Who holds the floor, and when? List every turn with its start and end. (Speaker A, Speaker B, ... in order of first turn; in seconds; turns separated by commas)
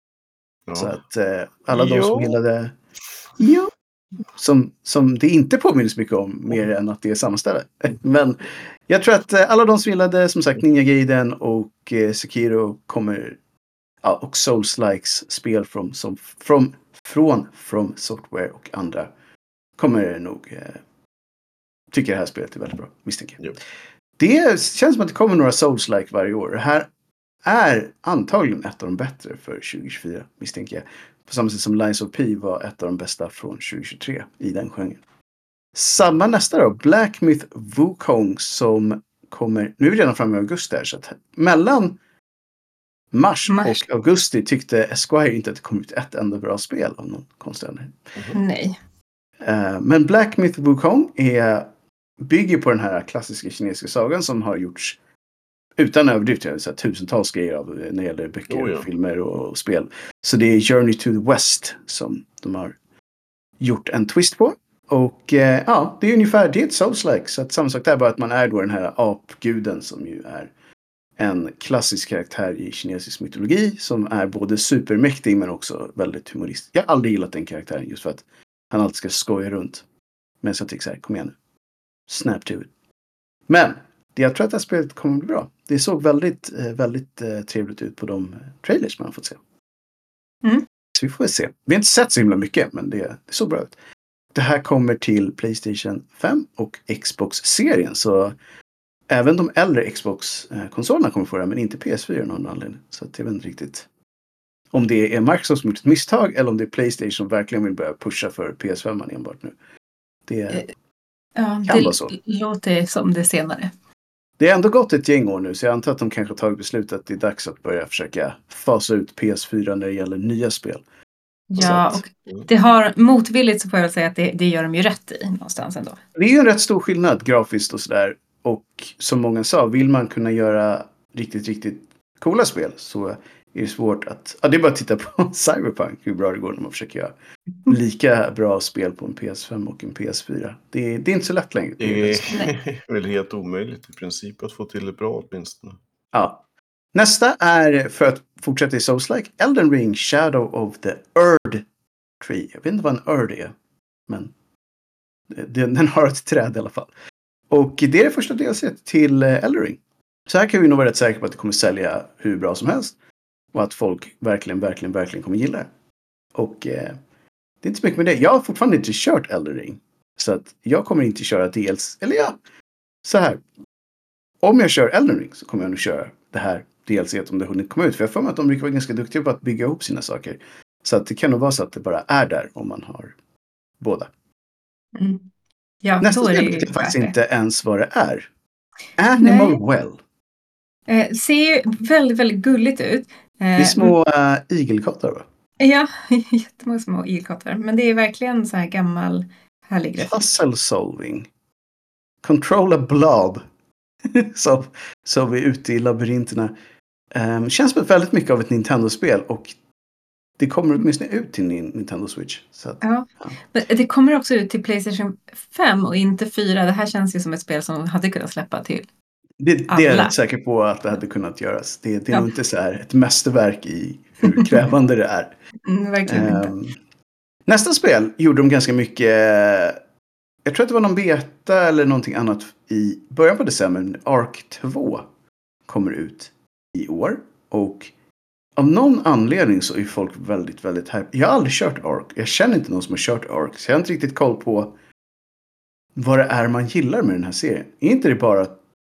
Speaker A: 0.7-0.9, Speaker B: 0.8-2.8, Speaker A: 1.7-2.4, Speaker B: 3.4-3.7, Speaker B: 4.3-13.4, Speaker B: 14.0-19.1, Speaker B: 19.8-20.8, Speaker B: 21.9-23.4, Speaker B: 24.2-26.9, Speaker B: 27.4-35.0, Speaker B: 35.7-42.0, Speaker B: 43.1-48.0, Speaker C: 43.5-43.8, Speaker A: 48.1-48.4, Speaker C: 48.3-48.8, Speaker B: 49.4-51.7, Speaker B: 52.2-55.0, Speaker B: 55.8-62.8, Speaker A: 58.5-58.9, Speaker B: 63.6-70.5, Speaker B: 71.2-79.8, Speaker B: 80.4-81.4, Speaker B: 82.1-82.7, Speaker B: 83.5-89.4, Speaker B: 91.0-93.7, Speaker B: 94.3-98.4, Speaker B: 99.1-103.9, Speaker B: 104.7-109.6, Speaker B: 110.3-110.6, Speaker C: 111.4-113.7, Speaker B: 111.7-112.1, Speaker B: 114.4-120.8, Speaker C: 121.5-126.0, Speaker B: 121.6-122.0, Speaker B: 126.2-137.1, Speaker B: 137.7-142.5, Speaker A: 141.8-145.8, Speaker B: 146.1-146.4, Speaker B: 146.9-151.7, Speaker B: 152.2-153.5, Speaker B: 154.1-154.3, Speaker B: 155.3-156.9, Speaker B: 157.5-162.9, Speaker B: 163.5-165.7, Speaker B: 166.3-167.0, Speaker B: 167.6-172.4, Speaker B: 173.0-173.4, Speaker B: 174.4-183.2, Speaker B: 183.8-184.1, Speaker C: 184.9-185.2, Speaker C: 185.8-187.1, Speaker B: 186.0-188.3, Speaker B: 189.0-190.0, Speaker C: 189.2-189.6, Speaker C: 190.9-193.9, Speaker B: 193.6-195.2, Speaker C: 195.6-200.3, Speaker B: 200.0-201.3, Speaker B: 202.2-203.4, Speaker B: 204.1-206.5, Speaker B: 207.1-209.6, Speaker B: 210.4-213.3, Speaker C: 212.8-218.9, Speaker B: 219.4-225.3, Speaker C: 219.7-220.1, Speaker C: 225.7-226.5, Speaker B: 226.1-226.7, Speaker B: 227.5-229.8, Speaker B: 230.4-235.1, Speaker B: 235.7-237.9, Speaker B: 238.6-244.7, Speaker B: 245.9-248.6